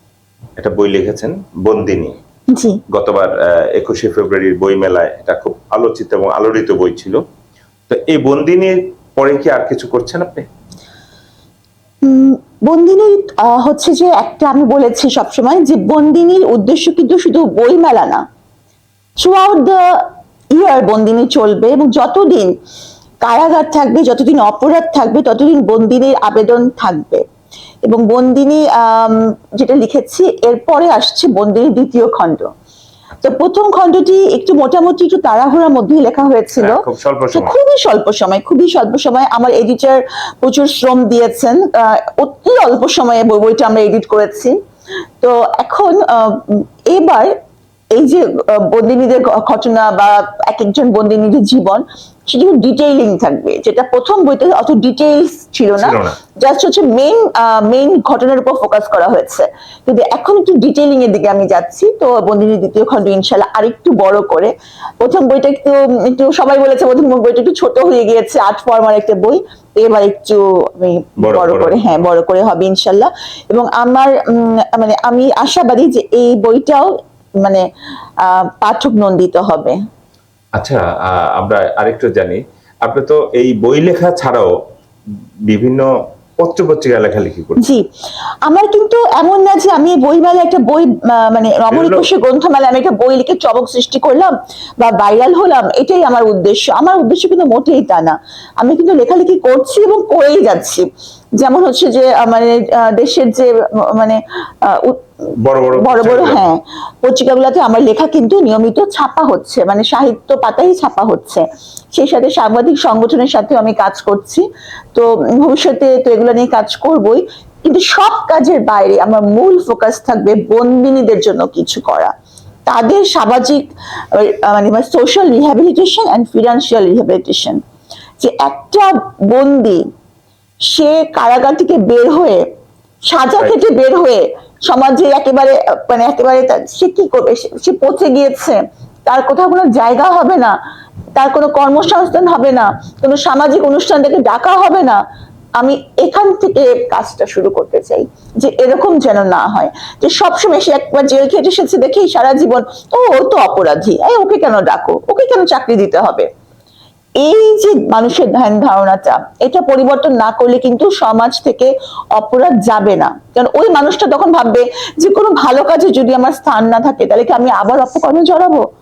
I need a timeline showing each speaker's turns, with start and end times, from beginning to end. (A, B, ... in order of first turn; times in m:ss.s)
0:00.6-0:02.2 A
0:02.5-0:02.8 B
0:02.9-0:07.2 A
0:07.9-0:10.5 A
0:12.0-0:18.2 B
0:19.2-0:19.8 B
0:20.5-0:22.5 B
0:23.2-0:27.2 B
0:27.8-0:32.5 B
0:33.2-0:36.8 B
0:36.6-0:37.5 A
0:37.3-0:44.6 B
0:45.2-0:47.3 B
0:47.9-1:16.9 B
0:55.8-0:56.2 A
1:11.2-1:11.8 A
1:18.2-1:19.8 B
1:20.6-1:24.5 A
1:25.5-1:25.9 A
1:26.4-1:27.6 A
1:27.6-1:27.8 B
1:28.4-1:40.9 B
1:31.7-1:32.1 A
1:41.4-1:45.0 B
1:45.4-1:46.4 A
1:45.8-2:02.1 B
2:02.7-2:03.6 B
2:04.1-2:07.6 B
2:08.2-2:09.8 B
2:10.7-2:12.4 B
2:13.1-2:20.5 B
2:21.2-2:25.0 B
2:25.6-2:36.3 B
2:37.2-2:48.6 B